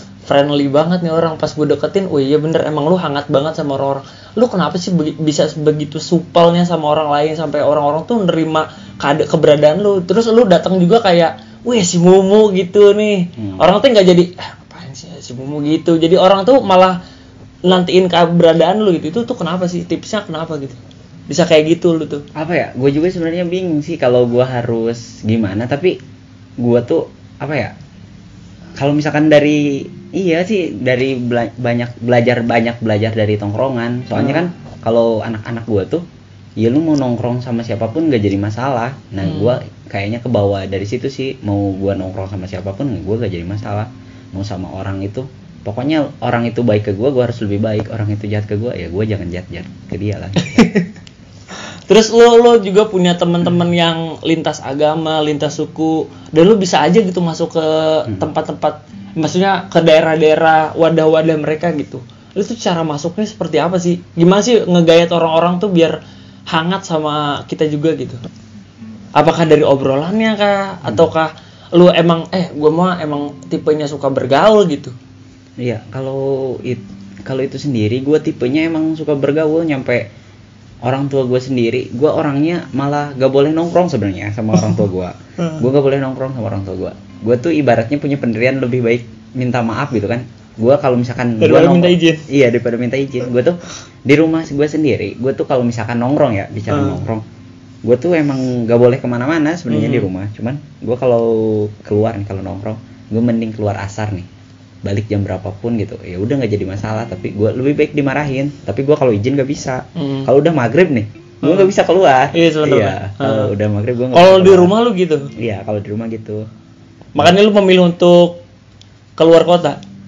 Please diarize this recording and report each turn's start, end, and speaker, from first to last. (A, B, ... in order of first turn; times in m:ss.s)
0:00.2-0:17.0 A
0:13.4-0:13.6 B
0:17.6-0:20.8 A
0:21.3-0:22.2 A
0:22.3-0:26.0 B
0:26.6-0:27.7 B
0:28.8-0:36.0 B
0:34.1-0:34.4 A
0:36.6-0:50.7 B
0:39.2-0:39.5 A
0:50.4-0:50.9 A
0:51.9-1:08.2 A
1:09.1-1:14.9 A
1:15.6-1:20.1 B
1:20.8-1:37.2 B
1:31.4-1:32.2 A
1:36.7-1:37.0 A
1:37.8-1:44.3 B
1:39.7-1:40.1 A
1:44.8-1:54.7 B
1:50.0-1:50.3 A
1:51.4-1:51.7 A
1:52.3-1:53.5 A
1:54.1-1:55.3 A
1:55.4-1:56.5 B
1:57.1-1:58.4 A
1:59.2-1:59.8 A